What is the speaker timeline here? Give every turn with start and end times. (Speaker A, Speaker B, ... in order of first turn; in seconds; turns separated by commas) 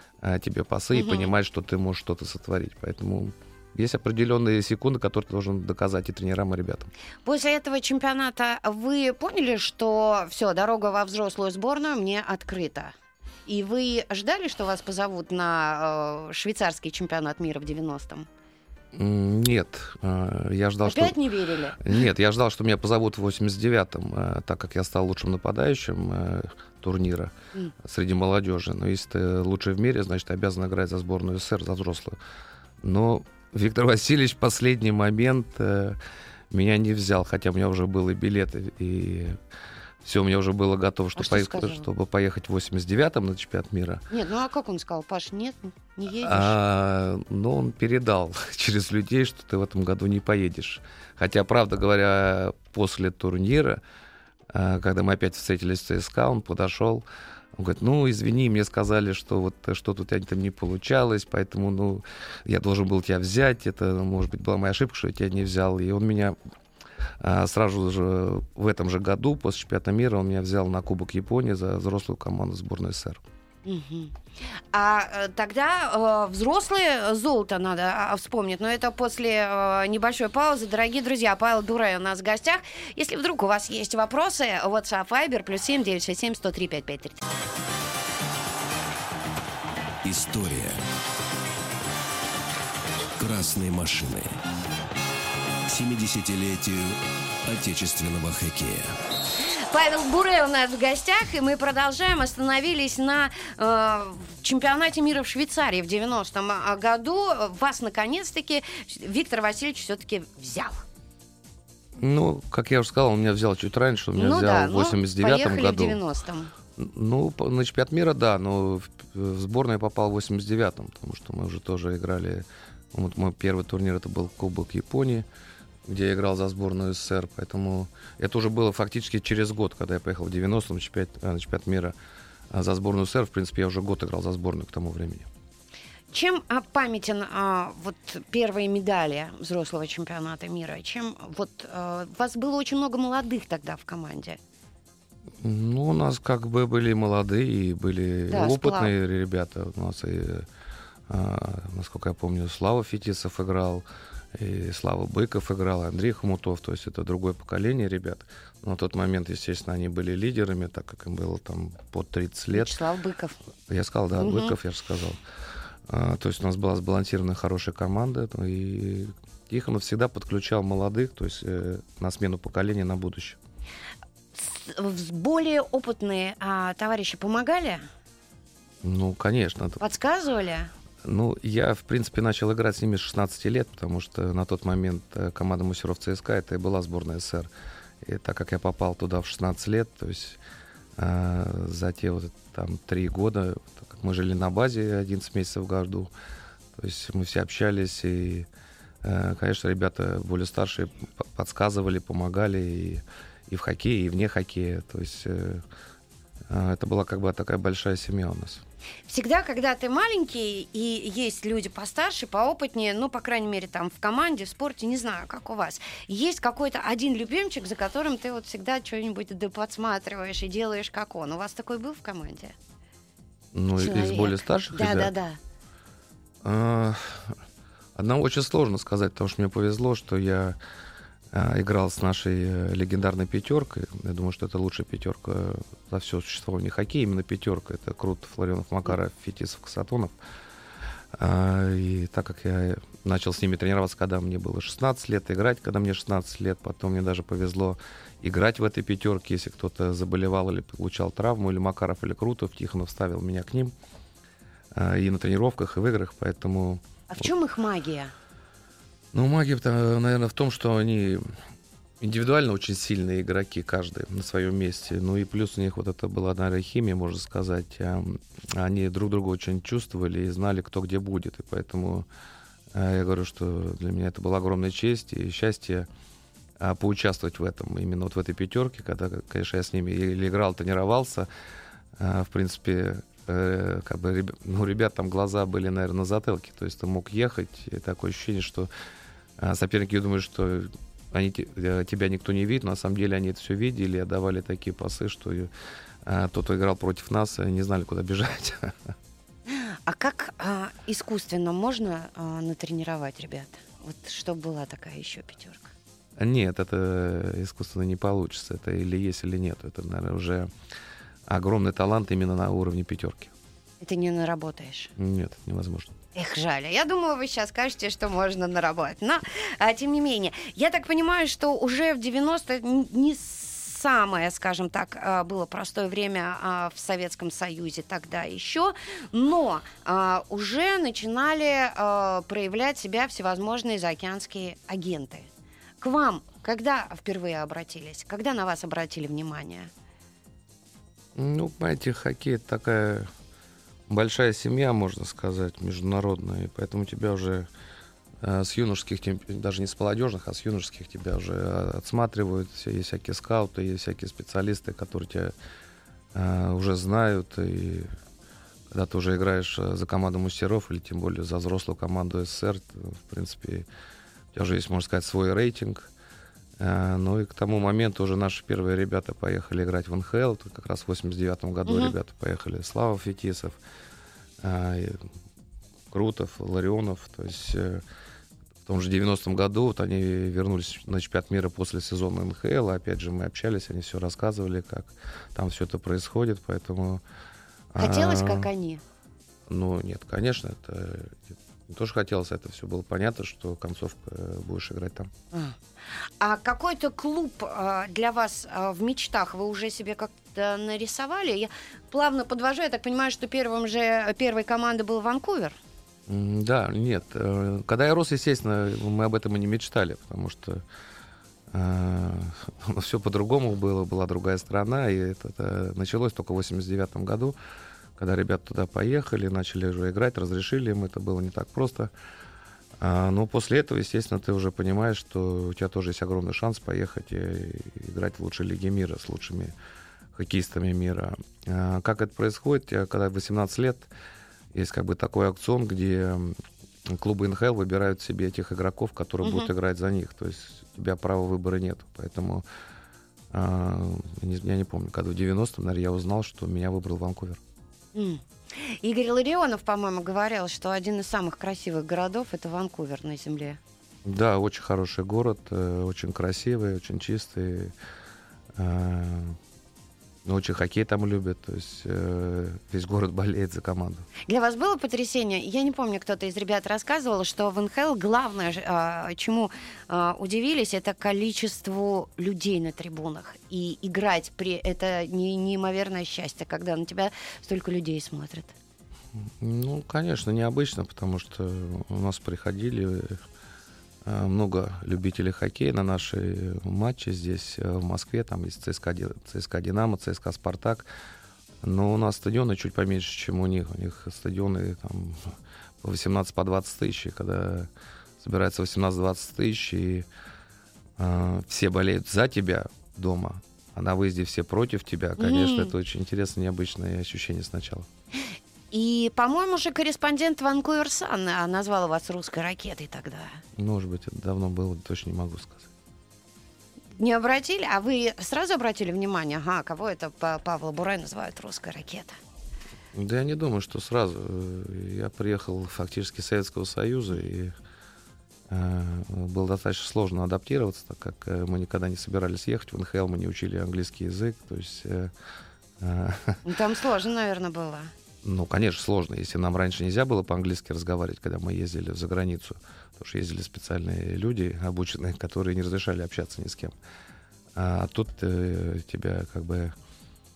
Speaker A: 0.2-6.9, Speaker B: 0.9-1.3, Speaker B: 7.2-12.9, Speaker B: 13.4-18.3, Speaker A: 18.9-21.2, Speaker B: 20.8-22.0, Speaker A: 21.8-32.2, Speaker A: 32.8-36.0, Speaker A: 36.5-39.4, Speaker A: 40.0-44.0, Speaker B: 41.1-41.9, Speaker B: 44.1-46.6, Speaker A: 46.2-53.8, Speaker A: 54.5-66.3, Speaker A: 67.2-73.2, Speaker B: 73.6-74.2, Speaker B: 74.7-87.2, Speaker C: 90.0-90.8, Speaker C: 93.2-94.4, Speaker C: 95.7-99.0, Speaker B: 99.7-110.8, Speaker A: 112.0-116.0, Speaker B: 114.2-116.5, Speaker A: 116.8-125.2, Speaker A: 125.9-131.9, Speaker A: 132.5-135.3, Speaker B: 136.1-144.4, Speaker A: 145.4-150.4, Speaker B: 148.3-148.9, Speaker A: 151.1-162.8, Speaker B: 162.5-163.4, Speaker A: 163.7-165.2, Speaker B: 164.2-164.5, Speaker A: 165.9-173.4, Speaker B: 174.3-177.8, Speaker A: 178.8-179.8, Speaker B: 179.8-180.7, Speaker A: 181.0-187.5, Speaker A: 188.0-190.4, Speaker A: 190.9-196.1, Speaker A: 196.7-198.5, Speaker A: 199.0-205.6, Speaker A: 206.5-208.6, Speaker B: 209.1-222.5, Speaker A: 223.5-225.1, Speaker B: 223.8-225.4, Speaker A: 226.4-227.4, Speaker A: 227.9-230.6, Speaker A: 231.3-240.1, Speaker A: 241.1-253.7, Speaker A: 254.7-257.3, Speaker B: 257.1-258.1, Speaker A: 259.1-261.2, Speaker A: 262.0-272.1, Speaker A: 272.7-275.9, Speaker A: 276.6-281.3, Speaker A: 282.0-288.7, Speaker A: 289.4-295.5, Speaker A: 296.0-298.9, Speaker B: 299.5-305.7, Speaker A: 306.2-310.5, Speaker A: 311.3-313.3, Speaker B: 313.8-314.9, Speaker A: 315.0-315.9, Speaker B: 316.1-335.3, Speaker B: 335.8-339.7, Speaker A: 341.1-343.1, Speaker A: 343.9-347.5, Speaker A: 348.2-355.3, Speaker A: 356.1-357.9, Speaker A: 358.7-363.6, Speaker A: 364.3-365.9, Speaker A: 366.6-373.6, Speaker B: 371.6-371.9, Speaker A: 374.4-375.1, Speaker A: 375.9-377.8, Speaker A: 378.6-387.0, Speaker A: 387.7-388.5, Speaker B: 387.8-388.8, Speaker A: 389.5-395.1, Speaker B: 395.3-395.6, Speaker B: 396.2-405.6, Speaker A: 406.1-410.6, Speaker A: 411.5-417.3, Speaker A: 418.0-421.9, Speaker A: 422.8-429.5, Speaker A: 430.1-433.9, Speaker A: 434.5-442.4, Speaker B: 439.2-439.5, Speaker A: 443.3-447.4, Speaker B: 447.9-453.6, Speaker A: 454.0-457.7, Speaker A: 458.6-459.4, Speaker A: 460.2-464.1, Speaker B: 464.3-478.5, Speaker A: 479.2-483.2, Speaker A: 484.0-490.9, Speaker A: 491.6-500.1, Speaker A: 501.0-507.9, Speaker B: 505.2-505.7, Speaker B: 508.7-513.4, Speaker A: 513.5-515.7, Speaker B: 517.0-522.2, Speaker A: 522.9-527.5, Speaker A: 528.5-535.1, Speaker A: 535.8-536.4, Speaker B: 536.4-537.9, Speaker A: 538.2-546.7, Speaker A: 547.5-549.7